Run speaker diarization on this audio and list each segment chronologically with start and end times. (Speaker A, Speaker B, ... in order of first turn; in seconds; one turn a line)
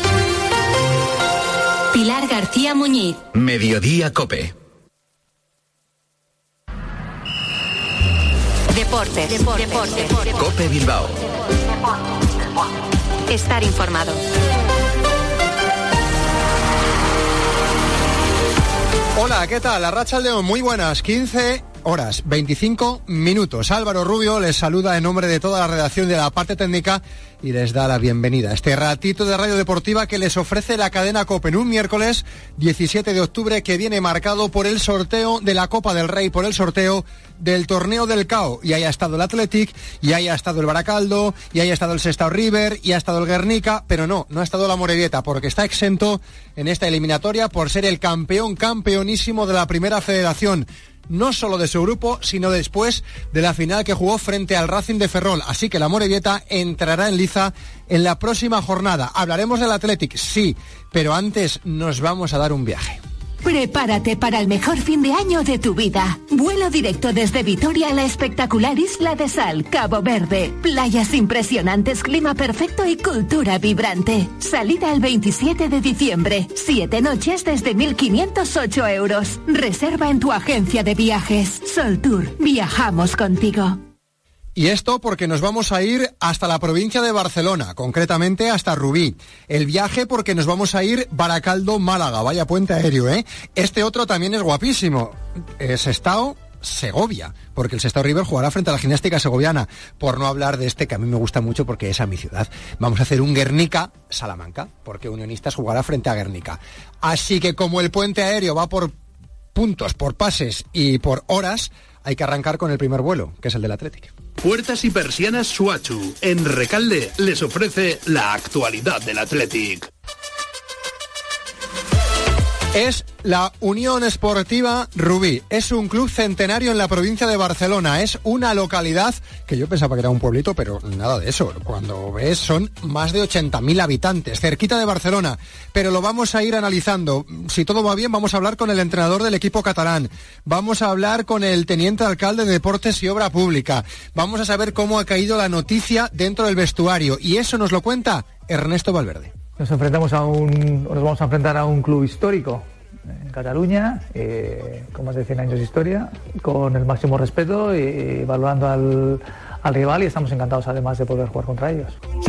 Speaker A: 1.9-3.2
Speaker B: 3.3-4.5
Speaker A: 8.7-10.3
Speaker B: 10.3-11.2
Speaker A: 13.3-14.2
Speaker C: 19.1-63.0
Speaker D: 63.4-83.8
Speaker C: 84.5-108.9
Speaker C: 109.5-114.1
Speaker E: 114.4-119.9
Speaker C: 122.7-149.3
Speaker F: 149.6-161.9